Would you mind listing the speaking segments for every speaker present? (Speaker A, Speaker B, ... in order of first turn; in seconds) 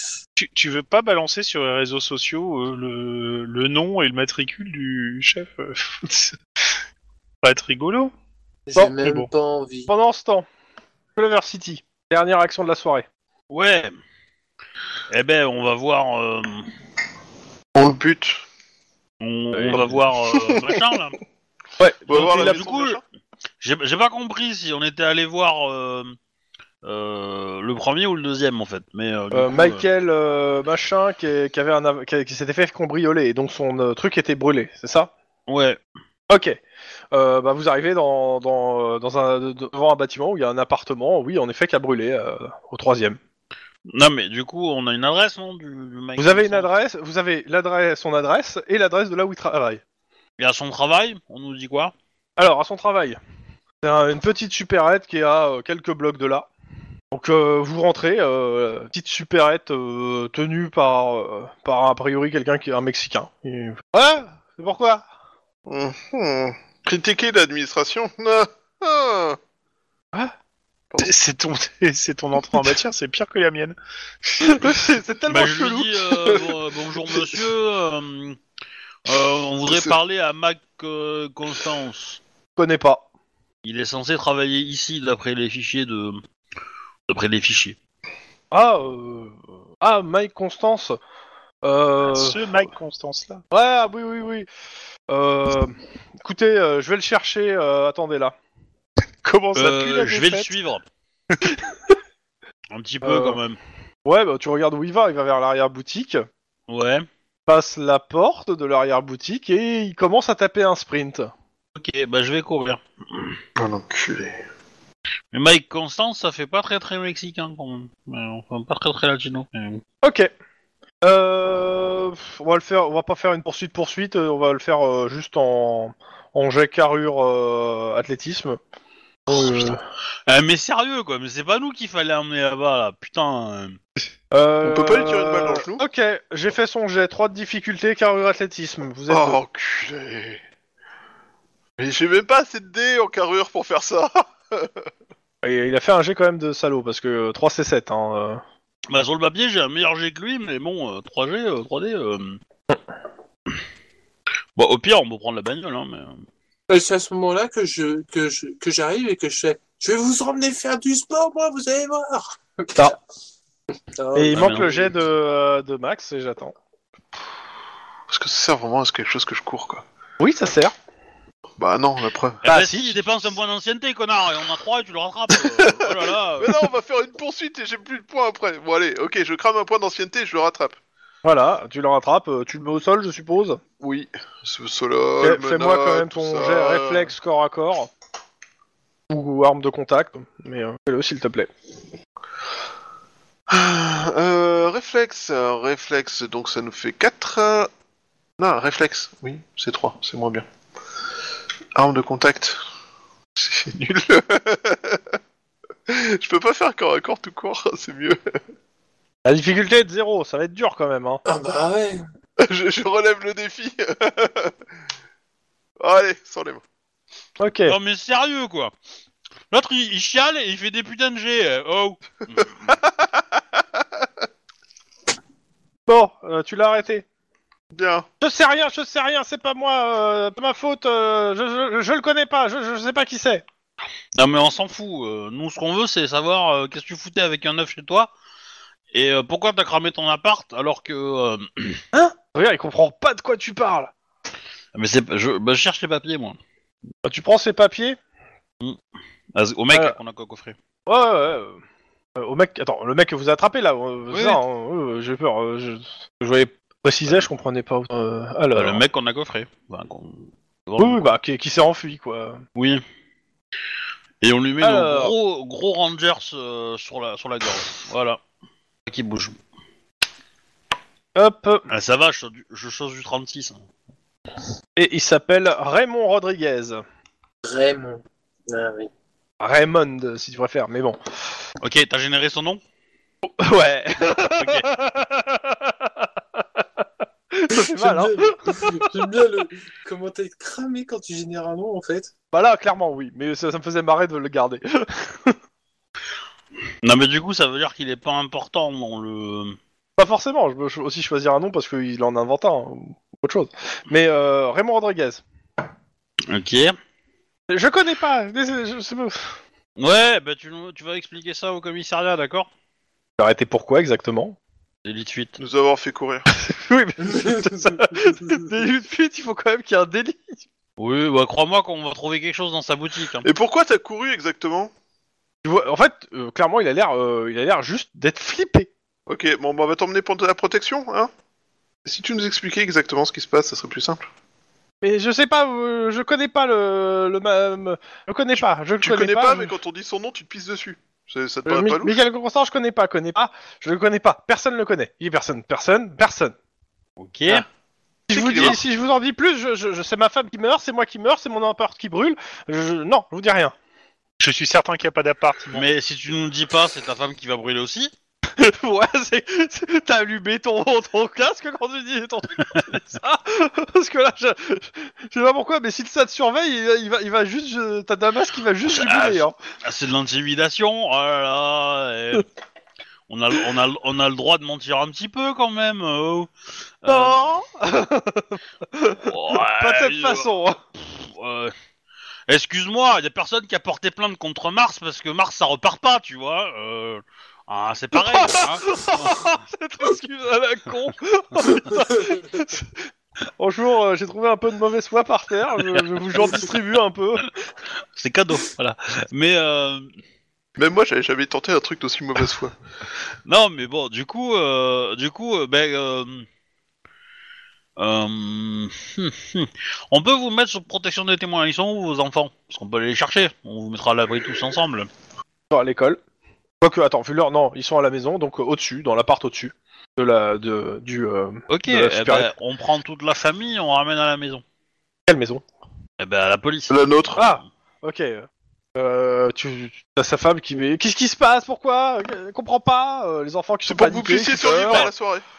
Speaker A: 0.4-6.4, 7.4-8.1, 9.0-9.3, 71.0-73.8, 92.0-93.4, 99.2-100.5, 354.2-355.6
Speaker B: 8.7-9.9, 156.7-162.9, 164.0-164.9, 211.3-212.0, 277.4-278.9, 287.5-292.1, 317.1-317.5, 391.7-392.2
Speaker C: 9.9-10.5, 11.2-13.1, 19.5-19.9, 21.8-22.7, 29.3-35.1, 36.3-36.6, 37.1-43.2, 46.2-49.8, 52.4-53.2, 53.8-56.5, 57.1-65.1, 74.4-76.5, 82.6-83.1, 88.5-91.0, 91.6-92.4, 93.5-94.5, 95.1-98.3, 103.0-103.4, 104.0-106.2, 107.5-111.3, 120.0-120.3, 121.0-128.6, 129.3-129.8, 134.3-139.4, 145.4-148.4, 164.2-166.6, 170.2-170.7, 172.5-173.0, 181.2-183.6, 185.2-187.9, 189.1-191.5, 209.2-211.2, 217.4-217.8, 225.9-227.1, 228.2-233.4, 241.9-243.9, 247.1-248.0, 249.7-250.0, 250.9-251.6, 252.2-258.8, 260.8-262.4, 264.6-265.1, 271.1-271.6, 274.8-276.8, 279.4-281.0, 283.3-286.1, 287.3-289.1, 292.3-295.4, 300.0-305.2, 307.5-309.4, 313.2-314.4, 316.4-320.4, 325.4-328.7, 334.8-339.5, 341.5-346.4, 348.1-353.5, 358.4-369.4, 376.9-380.6, 387.9-392.8, 393.4-397.3, 415.5-416.0, 416.6-422.3, 425.1-425.4, 427.2-434.9
Speaker D: 13.5-13.9, 15.1-16.7, 19.2-21.2, 22.1-23.0, 23.6-26.1, 26.8-29.9, 35.5-35.8, 43.9-46.7, 50.4-51.9, 75.3-78.4, 79.1-82.2, 83.6-86.2, 87.1-87.8, 99.5-100.9, 102.7-103.6, 106.7-107.0, 111.8-113.3, 115.3-119.8, 130.3-133.8, 148.9-152.4, 154.6-156.2, 164.3-164.8, 172.4-176.6, 217.7-218.7, 219.5-222.7, 234.2-238.1, 238.9-241.8, 244.8-246.4, 249.3-250.6, 254.1-254.4, 258.6-261.1, 262.6-262.8, 264.2-268.2, 268.9-269.4, 271.7-273.6, 281.6-282.6, 284.4-284.7, 296.8-299.6, 306.3-306.8, 309.8-312.5, 314.9-315.4, 320.8-323.3, 347.0-347.4, 355.5-357.9, 368.7-372.3, 373.1-376.3, 376.8-377.2, 379.1-381.5, 382.3-389.3, 395.6-396.4, 397.9-399.9, 403.3-406.3, 407.8-414.9, 421.5-424.4, 426.0-427.4, 434.4-434.9
Speaker E: 17.8-18.4, 20.3-20.7, 22.1-23.0, 65.7-69.4, 79.7-80.0, 113.6-114.4, 134.6-135.8, 139.1-140.4, 141.8-144.7, 168.1-169.8, 171.6-172.4, 176.4-180.8, 183.8-187.1, 193.5-197.7, 198.4-200.5, 201.8-202.6, 203.4-205.0, 205.9-208.2, 212.4-214.5, 215.8-216.6, 222.7-223.2, 227.7-228.1, 315.4-316.3, 323.2-324.7, 329.1-331.1, 331.9-334.1, 338.8-342.0, 348.1-348.6, 400.6-402.6, 426.7-427.2, 433.7-435.2